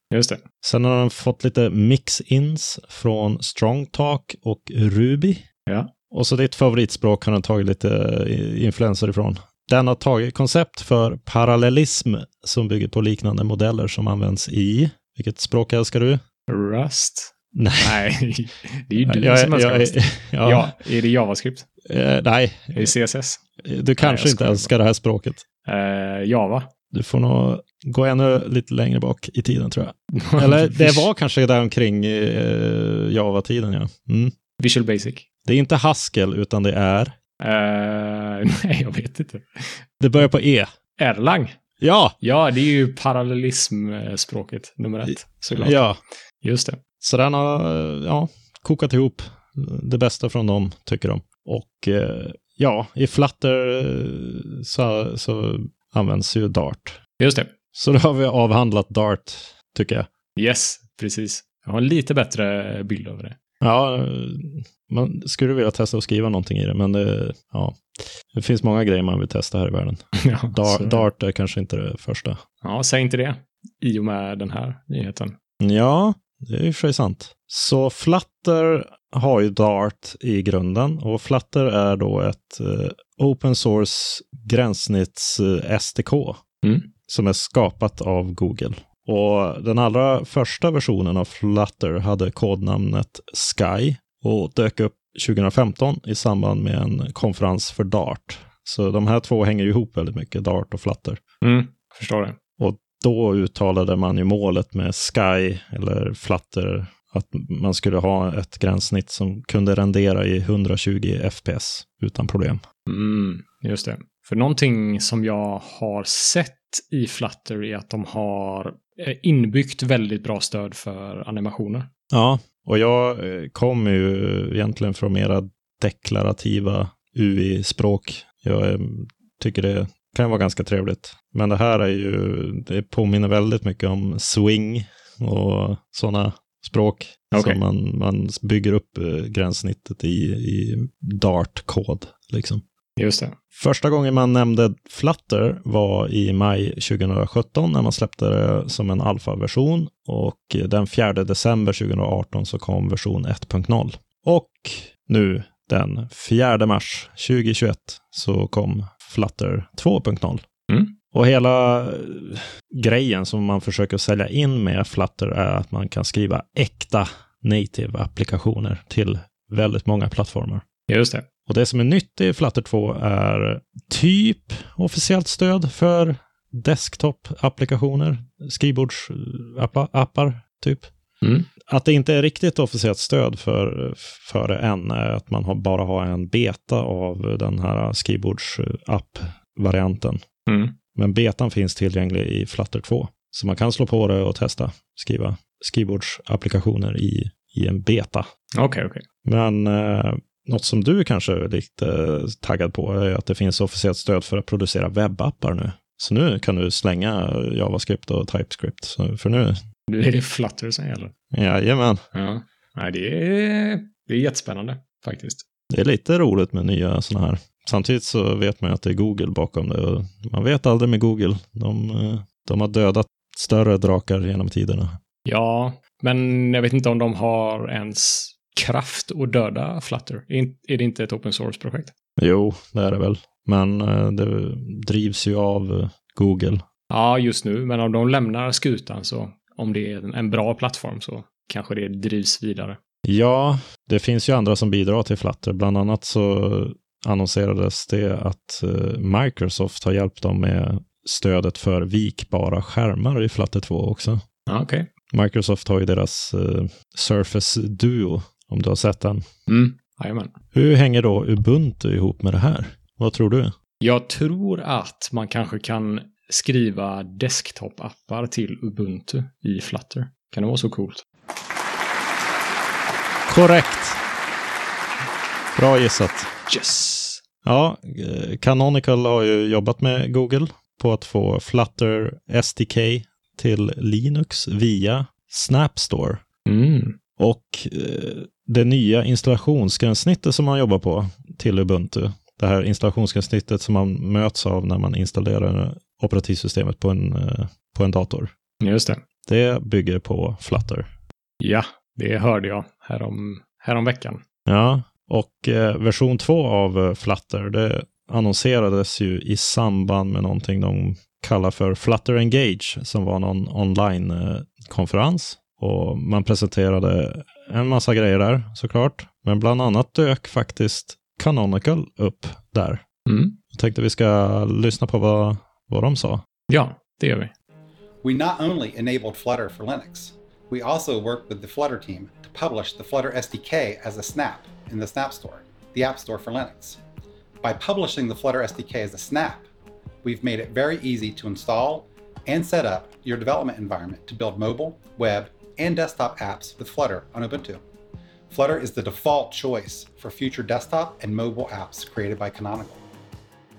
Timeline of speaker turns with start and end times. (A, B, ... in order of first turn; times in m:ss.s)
0:00.1-0:00.4 A
0:00.6-0:05.4 B
0:06.1-0:16.2 B
0:16.5-0:21.7 A
0:17.5-0:18.0 B
0:19.0-0:20.8 B
0:21.8-0:22.9 B
0:22.7-0:23.4 A
0:23.6-0:25.4 B
0:24.0-0:24.7 A
0:25.6-0:26.7 A
0:26.9-0:34.3 B
0:30.1-0:31.0 A
0:34.6-0:35.2 A
0:35.4-0:37.1 B
0:37.4-0:39.8 A
0:40.0-0:40.7 B
0:41.0-0:41.6 A
0:41.8-0:42.2 B
0:42.2-0:45.8 A
0:45.1-0:46.0 B
0:46.4-0:46.8 A
0:47.0-0:57.0 B
0:57.2-0:57.5 A
0:57.7-1:00.1 B
1:00.4-1:03.4 A
1:03.6-1:12.4 B
1:10.2-1:11.0 A
1:12.6-1:15.4 A
1:15.6-1:26.4 B
1:26.6-1:26.9 A
1:27.1-1:41.2 B
1:41.4-1:42.4 A
1:42.6-1:52.6 B
1:52.9-2:01.9 A
2:02.1-2:22.6 B
2:17.3-2:17.6 A
2:23.0-2:23.4 A
2:23.5-2:40.4 B
2:40.7-2:40.9 A
2:41.1-2:50.6 B
2:50.9-2:51.2 A
2:51.5-3:00.9 B
3:01.2-3:01.5 A
3:01.6-3:10.2 B
3:10.5-3:10.8 A
3:10.9-3:18.3 B
3:18.5-3:19.0 A
3:19.2-3:29.6 B
3:29.9-3:31.1 A
3:31.3-3:32.0 B
3:32.1-3:35.4 A
3:35.7-3:45.0 B
3:45.2-3:51.9 A
3:52.2-3:56.6 B
3:56.9-4:02.8 A
4:03.0-4:14.2 B
4:14.5-4:14.9 A
4:15.1-4:19.3 B
4:19.5-4:20.3 A
4:20.5-4:23.5 B
4:23.8-4:31.0 A
4:33.3-4:34.0 B
4:35.6-4:36.3 B
4:36.5-4:37.2 A
4:37.4-4:46.2 B
4:46.4-4:47.0 A
4:47.2-4:58.3 B
4:58.6-4:59.0 A
4:59.3-5:00.9 B
5:01.4-5:04.2 A
5:04.4-5:22.8 B
5:23.1-5:23.4 A
5:23.5-5:26.2 B
5:26.5-5:27.3 A
5:28.0-5:36.8 C
5:37.4-5:39.5 C
5:40.0-5:47.6 C
5:48.3-5:52.8 C